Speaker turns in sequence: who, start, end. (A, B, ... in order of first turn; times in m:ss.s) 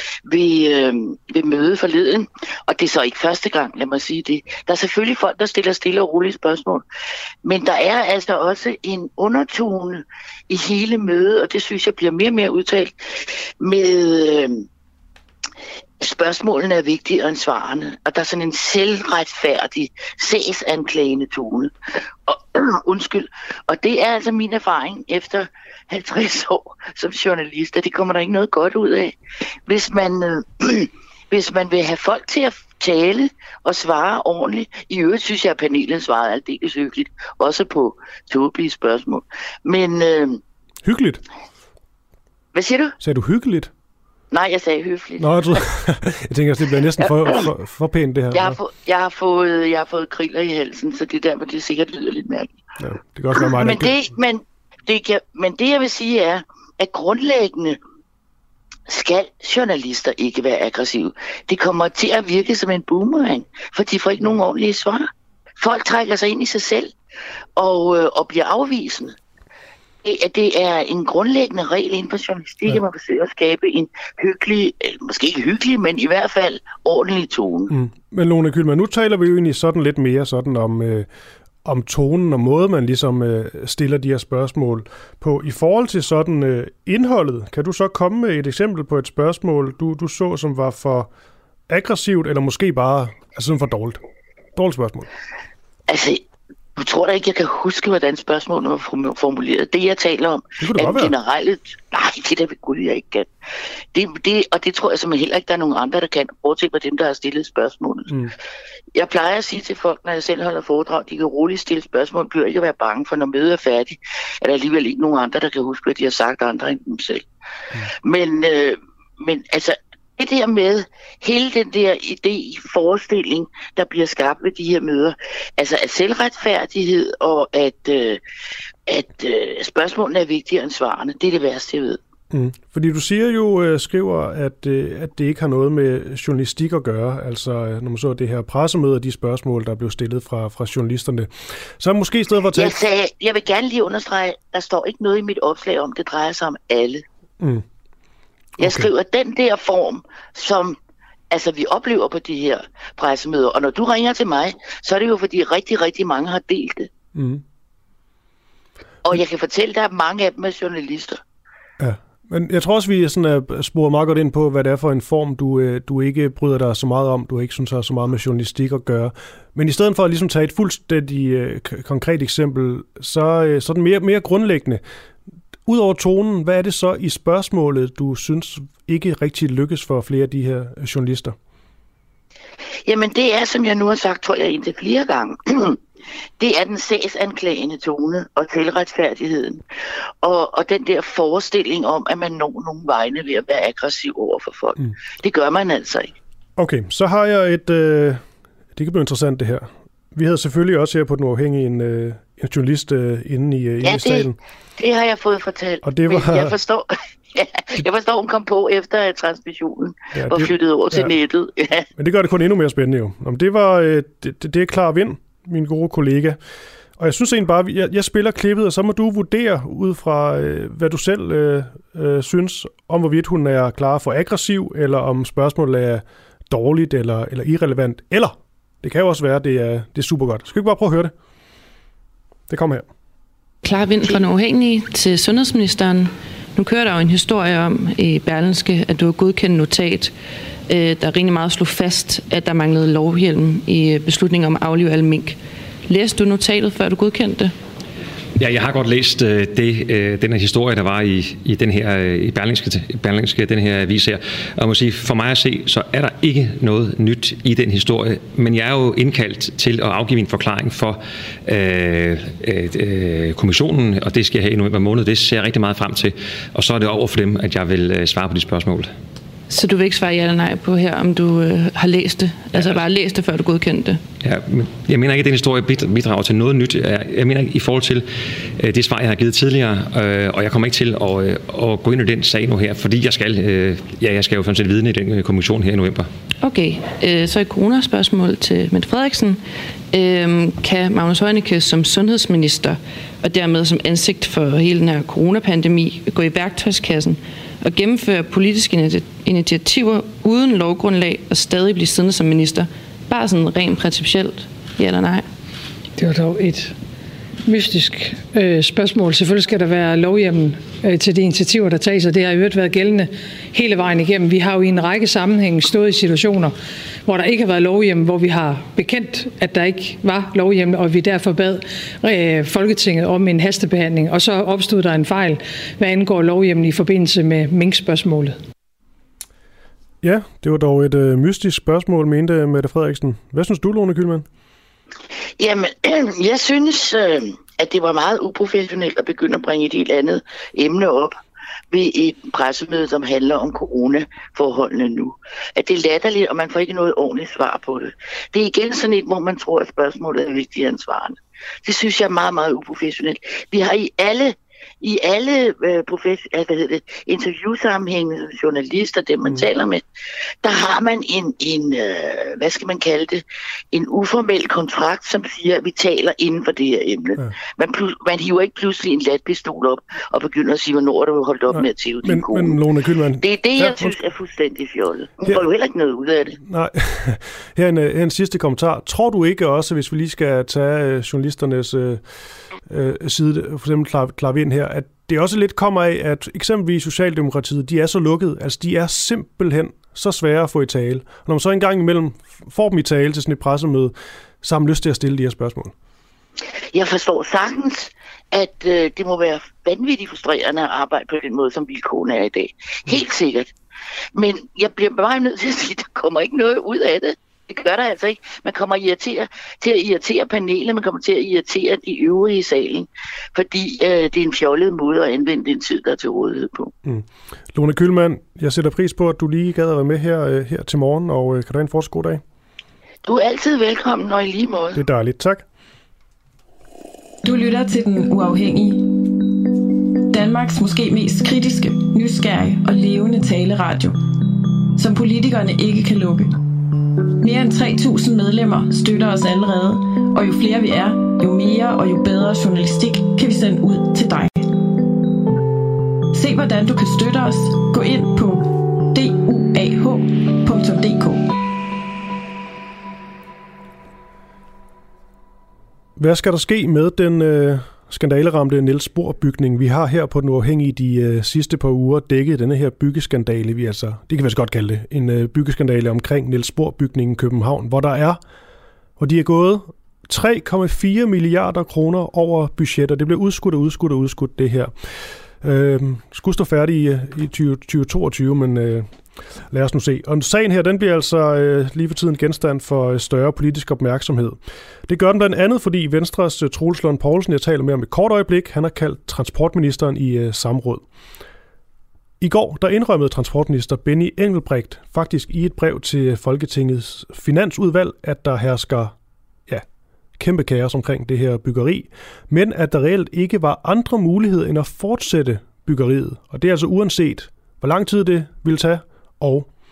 0:00.3-0:06.8 A
0:07.4-0:14.6 A
0:16.0-0:21.7 A
0:22.3-0:29.2 A
0:29.7-0:40.4 A
0:40.8-0:41.2 B
0:42.5-0:43.0 A
0:43.0-0:43.7 B
0:44.3-0:45.6 A
0:45.2-0:48.6 B
0:47.2-0:47.5 A
0:48.3-0:52.5 A
0:52.8-0:54.0 B
0:53.3-0:57.8 A
0:58.9-1:06.9 A
1:07.6-1:09.1 A
1:10.0-1:17.7 A
1:17.7-1:21.1 B
1:21.6-1:31.1 B
1:31.7-1:34.0 B
1:34.6-1:35.1 B
1:35.9-1:36.2 A
1:36.8-1:43.3 A
1:40.6-1:41.1 B
1:43.9-1:48.2 A
1:48.9-1:57.2 A
1:57.8-2:08.2 A
2:08.9-2:12.0 A
2:12.3-2:22.8 B
2:22.5-2:27.0 A
2:28.6-2:28.9 B
2:28.6-2:30.8 A
2:31.3-2:36.9 A
2:37.1-2:37.4 B
2:39.0-2:41.2 A
2:41.8-2:54.8 B
2:55.6-3:01.3 B
3:02.8-3:05.8 A
3:06.4-3:09.6 A
3:10.2-3:16.1 A
3:16.6-3:18.2 B
3:18.8-3:24.4 B
3:23.8-3:31.9 A
3:25.8-3:26.5 B
3:30.1-3:31.1 B
3:32.0-3:36.4 B
3:37.0-3:51.1 B
3:52.5-3:52.8 B
3:53.6-4:00.1 C
4:00.7-4:07.5 C
4:08.4-4:28.9 D
4:29.5-4:34.0 C
4:34.2-4:46.1 D
4:46.4-4:49.4 C
4:49.9-5:05.2 C
5:06.0-5:06.7 E
5:07.4-5:16.5 E
5:17.0-5:28.4 E
5:30.0-5:34.2 B
5:35.4-5:41.2 A
5:41.7-5:59.8 A
6:00.4-6:12.6 A
6:11.5-6:14.0 B
6:13.2-6:16.4 A
6:16.4-6:22.0 B
6:22.7-6:35.7 B
6:36.7-6:43.5 A
6:44.1-6:56.7 A
6:56.8-7:02.2 B
7:03.0-7:04.8 A
7:04.7-7:05.4 B
7:07.2-7:08.9 F
7:10.1-7:13.9 F
7:14.8-7:16.3 F
7:17.2-7:24.5 F
7:26.1-7:31.3 F
7:36.0-7:48.2 B
7:49.0-7:58.9 B
7:59.5-8:10.8 B
8:12.2-8:18.9 B
8:20.2-8:29.5 B